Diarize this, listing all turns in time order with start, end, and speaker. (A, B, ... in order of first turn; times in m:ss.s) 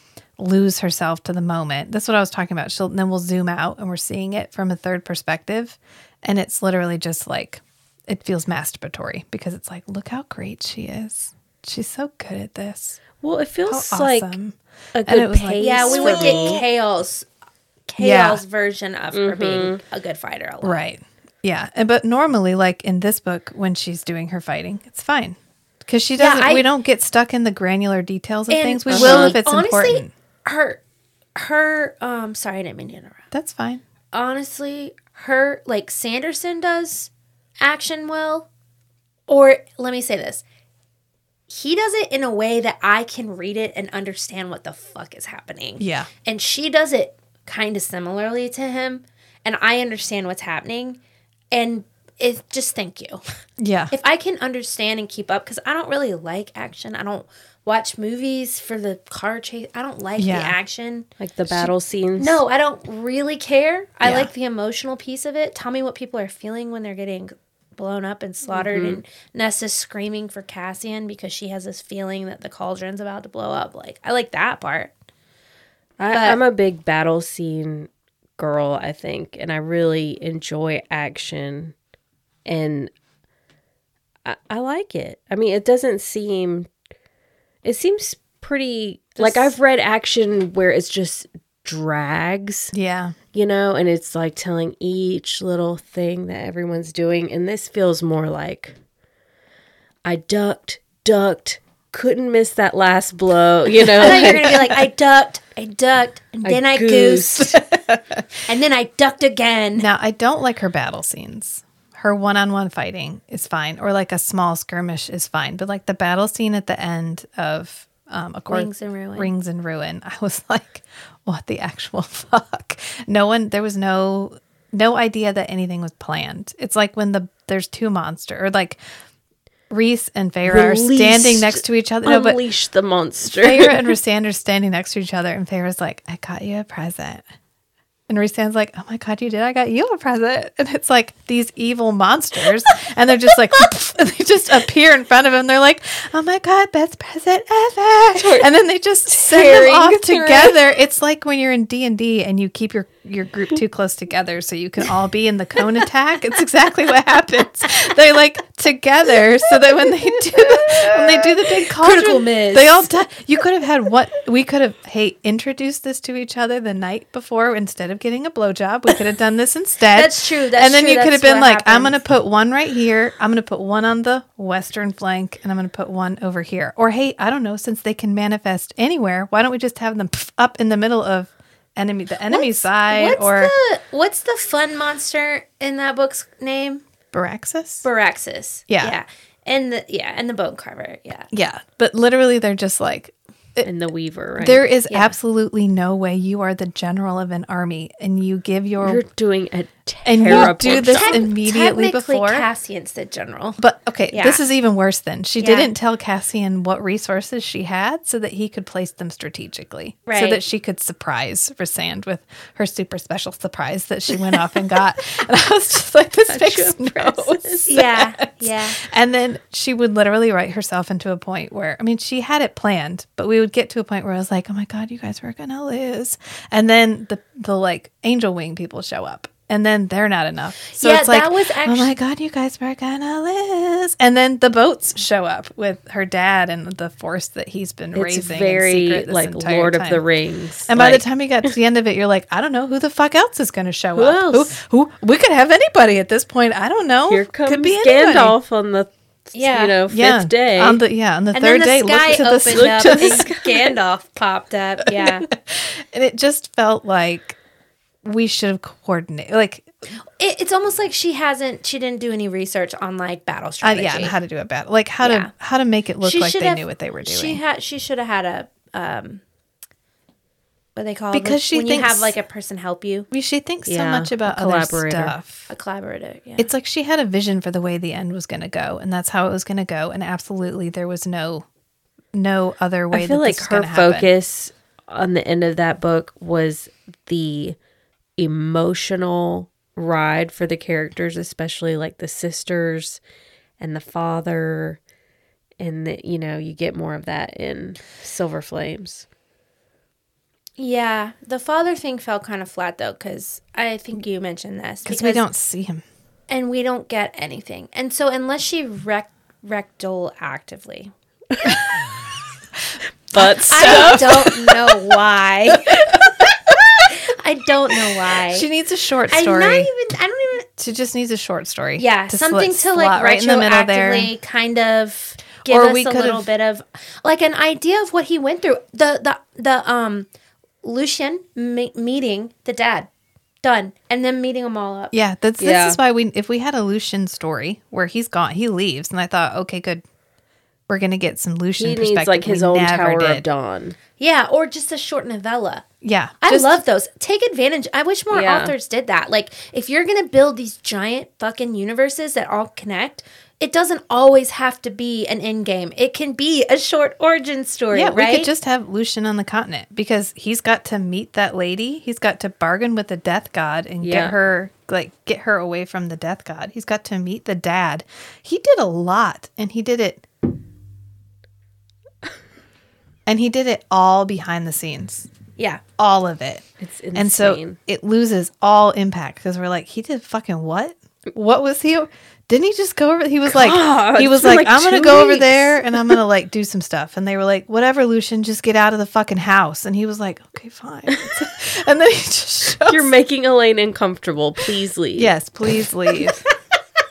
0:00.4-0:13.0 A
0:13.2-0:14.4 B
0:13.7-0:16.6 A
0:15.0-0:16.6 B
0:15.6-0:17.3 C
0:17.9-0:20.8 C
0:18.0-0:18.4 A
0:19.1-0:19.8 B
0:20.6-0:30.1 A
0:26.2-0:26.7 C
0:28.5-0:30.8 C
0:28.9-0:29.4 B
0:31.4-0:33.2 C
0:33.3-0:33.8 A
0:34.1-0:38.5 C
0:39.3-0:40.4 C
0:41.5-0:51.0 C
0:45.8-0:46.1 A
0:51.5-0:53.2 C
0:53.6-0:53.9 A
0:53.9-1:01.1 C
1:00.2-1:00.6 A
1:01.2-1:02.4 B
1:02.2-1:14.9 C
1:04.0-1:04.3 A
1:08.5-1:09.0 B
1:16.0-1:21.7 B
1:16.1-1:16.4 C
1:22.4-1:22.9 B
1:24.2-1:26.7 B
1:27.6-1:32.7 B
1:29.2-1:29.5 C
1:32.7-1:33.2 A
1:33.3-1:38.8 B
1:40.0-1:44.7 B
1:44.0-1:47.6 C
1:46.4-1:47.5 B
1:47.5-1:48.2 A
1:48.5-1:49.9 C
1:49.8-2:08.8 A
1:58.5-1:59.3 C
2:09.7-2:12.4 A
2:10.4-2:14.0 B
2:13.3-2:17.2 A
2:18.1-3:03.5 A
2:28.2-2:28.5 B
2:29.1-2:30.7 B
2:41.8-2:42.9 C
2:49.9-2:52.0 C
3:02.3-3:06.8 C
3:07.1-3:07.9 A
3:07.8-3:11.3 C
3:08.7-3:09.0 A
3:11.3-3:13.7 A
3:13.6-3:14.6 B
3:14.4-3:19.0 A
3:14.9-3:15.2 C
3:18.8-3:21.2 B
3:20.0-3:22.5 A
3:20.3-3:23.6 C
3:23.6-4:00.0 A
3:24.1-3:24.4 C
3:25.4-3:25.7 C
3:30.1-3:30.4 C
3:36.3-3:37.7 B
3:37.7-3:38.8 C
3:50.7-3:51.9 C
3:58.0-4:01.5 B
4:00.7-4:08.4 A
4:04.0-4:04.5 B
4:07.1-4:10.8 B
4:09.3-4:09.8 C
4:09.9-4:13.3 A
4:11.3-4:15.3 C
4:12.5-4:13.8 B
4:14.9-4:17.4 A
4:18.0-4:19.7 A
4:20.2-4:24.2 C
4:23.6-4:27.4 A
4:25.0-4:25.3 C
4:26.0-4:29.2 C
4:30.8-4:33.1 C
4:31.1-4:32.2 A
4:33.1-4:35.5 A
4:33.7-4:35.2 B
4:35.5-4:36.5 C
4:36.4-4:41.5 A
4:42.1-4:44.1 A
4:42.9-4:47.6 B
4:48.2-4:53.0 B
4:53.6-4:54.8 B
4:55.6-4:59.1 B
5:00.6-5:05.2 C
5:04.8-5:05.8 A
5:06.3-5:10.9 C
5:11.5-5:11.9 A
5:13.1-5:14.4 A
5:13.1-5:14.4 B
5:13.5-5:15.9 C
5:15.7-5:16.3 A
5:16.9-5:18.5 C
5:18.1-5:19.7 A
5:19.1-5:20.5 C
5:20.6-5:24.1 A
5:21.8-5:30.1 C
5:25.4-5:26.3 A
5:30.6-5:32.9 C
5:33.4-5:34.9 C
5:34.9-5:39.8 A
5:35.4-5:35.8 B
5:40.7-5:43.2 A
5:41.6-5:43.8 B
5:44.0-5:45.7 C
5:45.8-5:46.6 A
5:46.2-5:58.3 C
5:48.1-5:48.5 B
5:57.7-6:10.0 A
6:03.8-6:04.1 B
6:13.1-6:15.1 A
6:15.8-6:32.9 A
6:16.6-6:17.6 B
6:23.3-6:26.0 B
6:30.9-6:31.2 B
6:32.6-6:35.1 B
6:35.0-6:36.2 A